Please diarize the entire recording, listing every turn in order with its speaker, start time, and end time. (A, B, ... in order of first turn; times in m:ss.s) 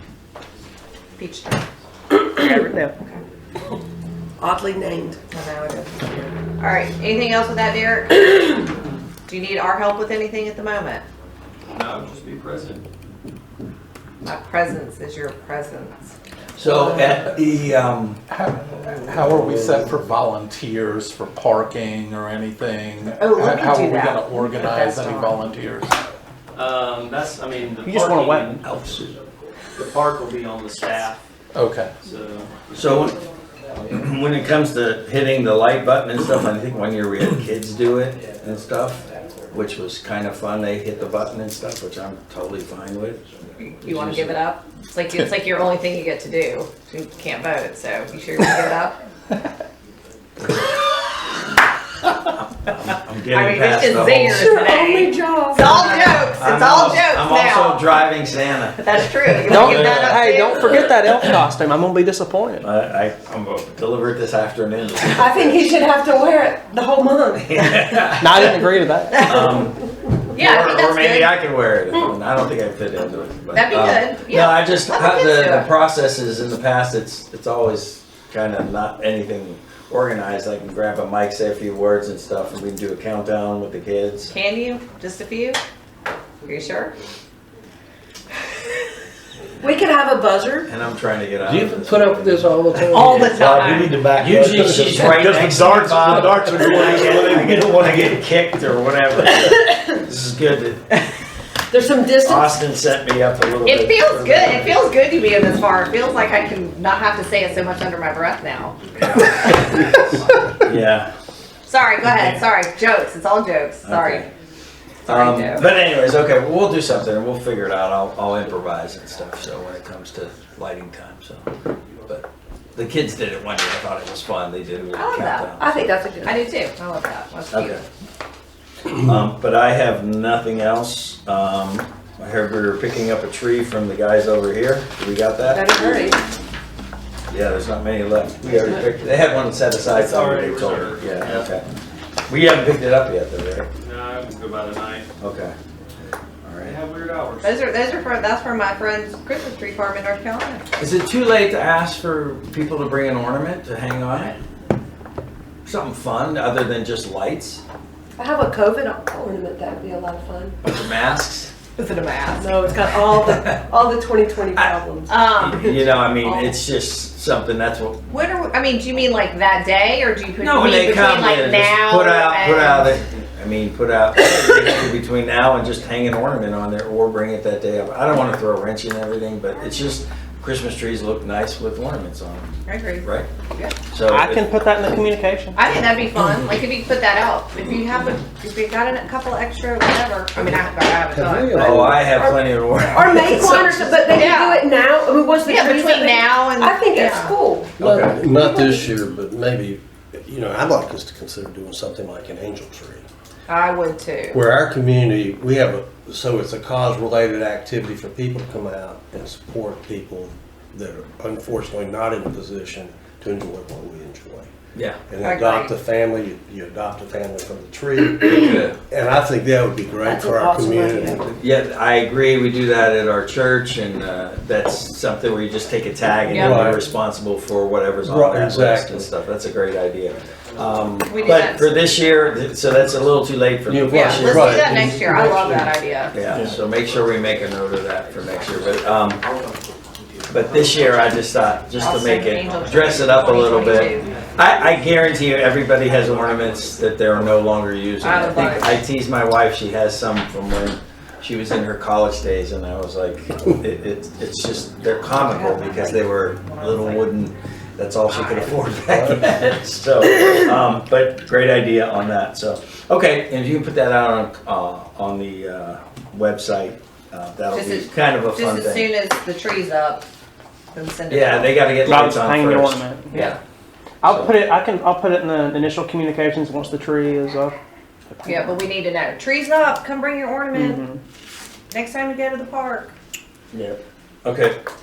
0:01.2-0:01.6 A
0:02.3-0:03.0 B
0:02.4-0:02.6 C
0:04.4-0:05.2 C
0:05.3-0:08.7 A
0:09.3-0:11.0 A
0:11.7-0:12.8 D
0:14.2-0:16.1 A
0:16.6-0:18.2 E
0:18.3-0:26.0 F
0:23.2-0:25.4 A
0:26.6-0:29.2 D
0:27.8-0:29.1 B
0:29.8-0:31.2 D
0:31.6-0:32.0 F
0:32.0-0:33.1 D
0:32.7-0:33.2 E
0:33.9-0:43.2 E
0:43.6-0:49.0 A
0:43.8-0:44.4 E
0:50.4-0:50.8 E
0:52.5-0:54.5 E
0:53.3-0:58.0 A
0:54.3-0:56.3 C
0:55.8-0:58.8 E
0:58.8-1:00.9 A
0:59.4-1:01.2 E
0:59.5-1:02.7 B
1:02.6-1:05.7 E
1:05.0-1:07.6 C
1:07.4-1:08.6 E
1:08.2-1:09.4 B
1:09.2-1:24.3 E
1:10.3-1:11.4 A
1:13.5-1:15.7 A
1:24.3-1:25.6 A
1:26.4-1:27.0 A
1:29.6-1:30.7 C
1:30.7-1:40.9 E
1:31.5-1:33.1 G
1:31.8-1:37.4 C
1:32.9-1:34.0 A
1:33.6-1:35.2 G
1:36.4-1:37.2 G
1:39.2-1:40.0 C
1:41.7-1:42.7 C
1:42.2-1:44.8 E
1:43.6-1:50.3 A
1:49.0-1:49.8 E
1:50.6-1:51.1 E
1:51.7-1:54.3 A
1:53.8-1:54.3 E
1:55.1-1:55.7 A
1:55.1-2:01.5 E
2:02.1-2:05.8 E
2:04.9-2:05.5 A
2:05.6-2:06.4 C
2:06.2-2:07.8 A
2:07.5-2:07.8 E
2:09.0-2:16.0 E
2:15.5-2:16.3 C
2:17.3-2:21.6 E
2:19.9-2:21.5 D
2:22.3-2:23.7 E
2:23.8-2:25.1 D
2:25.2-2:25.6 E
2:26.4-2:26.8 E
2:26.6-2:27.6 D
2:27.4-2:30.7 A
2:30.8-2:34.4 E
2:35.6-2:37.6 E
2:38.2-2:40.6 C
2:40.6-2:41.5 E
2:41.8-2:42.6 A
2:42.4-2:45.2 C
2:43.2-2:43.6 E
2:45.1-2:45.9 A
2:45.3-2:48.0 E
2:48.1-2:53.0 A
2:50.4-3:03.3 E
3:02.6-3:03.8 A
3:03.9-3:04.5 E
3:04.1-3:05.6 B
3:05.6-3:11.9 A
3:11.1-3:12.1 G
3:11.5-3:13.9 E
3:12.1-3:18.9 C
3:14.1-3:14.7 A
3:15.4-3:17.4 A
3:17.8-3:23.1 G
3:23.5-3:24.4 A
3:24.3-3:34.5 G
3:35.1-3:41.3 G
3:35.2-3:35.7 A
3:38.2-3:38.8 E
3:40.0-3:41.2 C
3:41.3-3:54.8 E
3:46.3-3:46.8 A
3:46.3-3:46.9 G
3:48.0-3:49.1 G
3:51.0-3:51.7 A
3:53.7-3:55.7 G
3:53.9-3:56.2 A
3:56.1-3:59.2 E
3:59.2-3:59.5 C
4:00.3-4:28.9 E
4:01.8-4:04.1 A
4:08.0-4:08.7 A
4:15.0-4:17.1 A
4:18.1-4:18.6 A
4:27.5-4:30.1 A
4:30.7-4:31.6 A
4:31.1-4:33.4 E
4:31.8-4:33.1 B
4:33.1-4:33.4 A
4:34.0-4:37.6 B
4:34.1-4:34.4 E
4:38.1-4:38.6 B
4:38.2-4:40.8 A
4:40.5-4:41.0 B
4:41.7-4:42.9 A
4:43.5-4:44.6 E